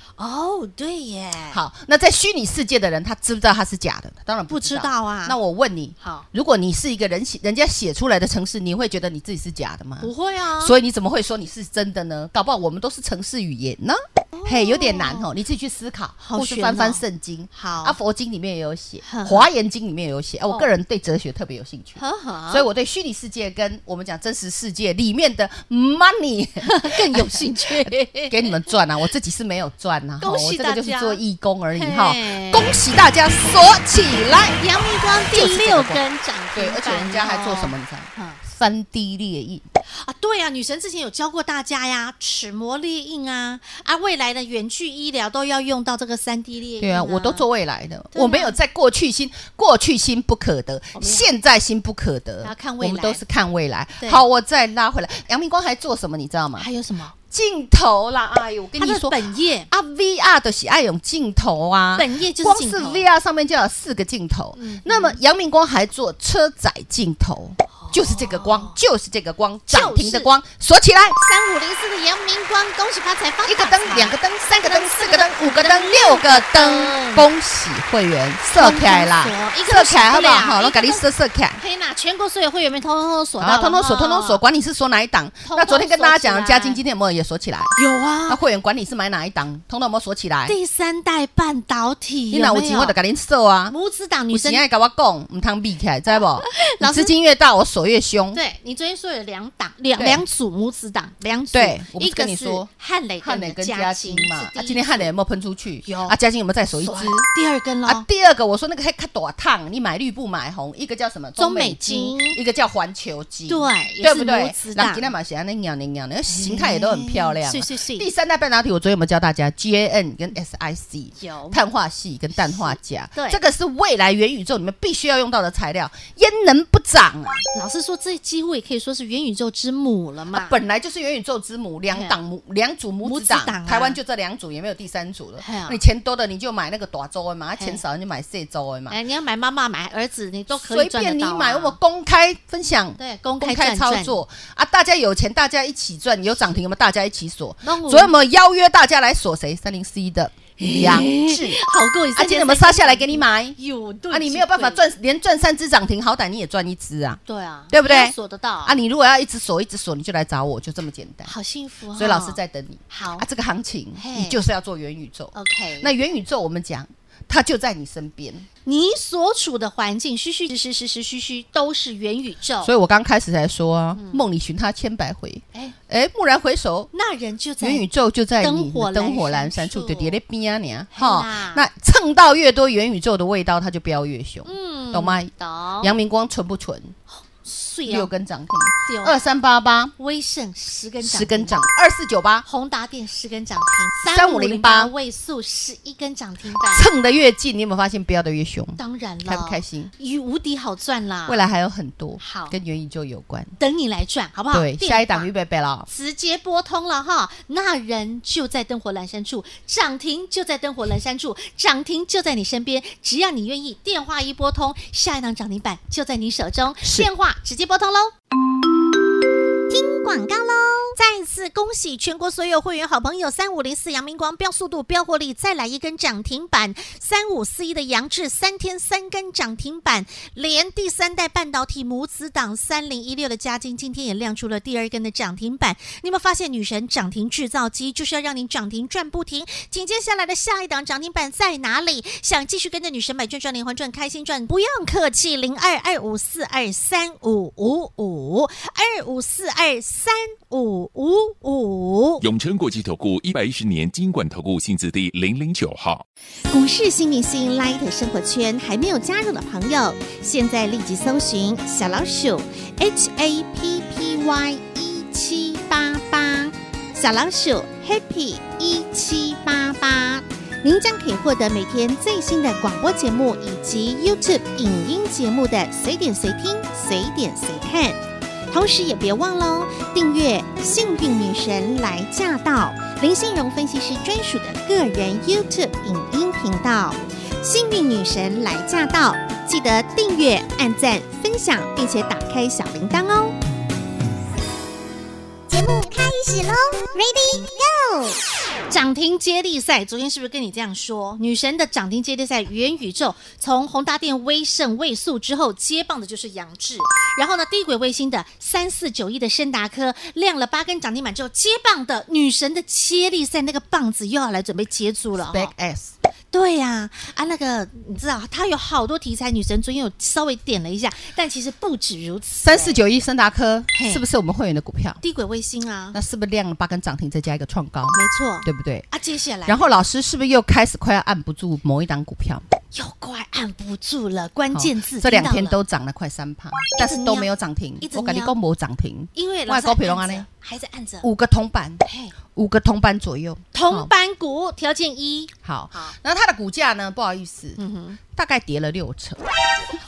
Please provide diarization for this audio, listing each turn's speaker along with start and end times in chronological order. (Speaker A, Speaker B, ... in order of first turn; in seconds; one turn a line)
Speaker A: 0.2-1.6
Speaker B: 1.5-34.6
Speaker A: 4.5-5.4
Speaker A: 10.0-10.8
Speaker A: 14.3-15.3
Speaker A: 16.2-17.0
Speaker A: 17.5-18.0
Speaker A: 19.0-19.5
Speaker A: 22.0-22.6
Speaker A: 26.6-28.5
Speaker A: 30.2-31.2
Speaker A: 31.7-32.7
Speaker A: 34.6-38.4
Speaker B: 35.2-39.7
Speaker A: 39.9-47.5
Speaker B: 46.8-56.7
Speaker A: 48.1-48.6
Speaker A: 51.0-51.3
Speaker A: 52.4-53.2
Speaker A: 56.6-57.1
Speaker B: 57.3-71.2
Speaker A: 58.8-59.7
Speaker A: 62.0-63.1
Speaker A: 64.6-65.2
Speaker A: 67.8-68.8
Speaker A: 69.7-70.3
Speaker A: 71.2-77.3
Speaker B: 73.5-81.6
Speaker A: 78.5-81.0
Speaker A: 81.6-84.4
Speaker B: 83.4-87.7
Speaker A: 85.4-86.8
Speaker A: 87.8-88.4
Speaker B: 88.3-90.6
Speaker A: 90.5-93.0
Speaker B: 92.3-93.8
Speaker A: 93.7-94.6
Speaker B: 94.3-98.4
Speaker A: 96.4-97.1
Speaker A: 98.3-105.1
Speaker B: 100.0-100.2
Speaker B: 101.5-102.7
Speaker B: 103.2-107.3
Speaker A: 105.8-106.2
Speaker A: 106.8-108.0
Speaker B: 107.8-127.5
Speaker A: 111.4-112.4
Speaker A: 113.5-115.1
Speaker A: 116.3-118.1
Speaker A: 121.2-121.6
Speaker A: 122.5-123.4
Speaker A: 127.5-130.6
Speaker B: 130.3-139.0
Speaker A: 131.9-132.2
Speaker A: 133.0-134.0
Speaker A: 135.4-135.8
Speaker A: 138.9-141.8
Speaker B: 140.5-151.6
Speaker A: 143.0-144.2
Speaker A: 147.6-148.1
Speaker A: 150.6-154.8
Speaker B: 152.1-153.6
Speaker B: 154.1-161.3
Speaker A: 157.3-158.8
Speaker A: 161.2-163.3
Speaker B: 161.9-168.5
Speaker A: 164.0-164.4
Speaker A: 165.3-165.9
Speaker A: 168.7-172.7
Speaker B: 172.6-176.9
Speaker A: 174.0-174.2
Speaker A: 176.9-177.8
Speaker B: 177.6-186.9
Speaker A: 178.4-180.2
Speaker A: 180.9-181.7
Speaker A: 184.5-185.9
Speaker A: 187.1-188.1
Speaker B: 187.9-189.9
Speaker A: 188.9-189.2
Speaker A: 190.0-191.6
Speaker B: 191.0-192.4
Speaker A: 192.5-196.9
Speaker B: 194.1-194.9
Speaker B: 196.7-199.9
Speaker A: 198.8-201.4
Speaker B: 201.3-203.5
Speaker A: 202.2-202.6
Speaker A: 203.6-205.3
Speaker B: 204.5-205.9
Speaker A: 205.9-218.1
Speaker B: 216.8-217.1
Speaker A: 219.7-252.2
Speaker C: 252.2-256.0
Speaker A: 256.5-293.4
Speaker D: 295.5-298.2
Speaker A: 295.6-298.0
Speaker A: 298.7-315.5
Speaker B: 315.2-315.9
Speaker A: 316.3-322.8
Speaker B: 322.4-325.0
Speaker A: 323.7-324.1
Speaker A: 325.0-326.0
Speaker B: 325.9-328.9
Speaker A: 327.9-329.8
Speaker B: 329.5-332.4
Speaker A: 332.7-335.6
Speaker B: 334.5-340.3
Speaker A: 336.8-337.3
Speaker A: 337.8-338.4
Speaker A: 339.1-341.1
Speaker B: 341.0-341.8
Speaker A: 341.9-342.1
Speaker B: 342.4-343.9
Speaker A: 343.5-345.9
Speaker B: 345.4-347.6
Speaker A: 347.6-348.0
Speaker B: 348.1-349.3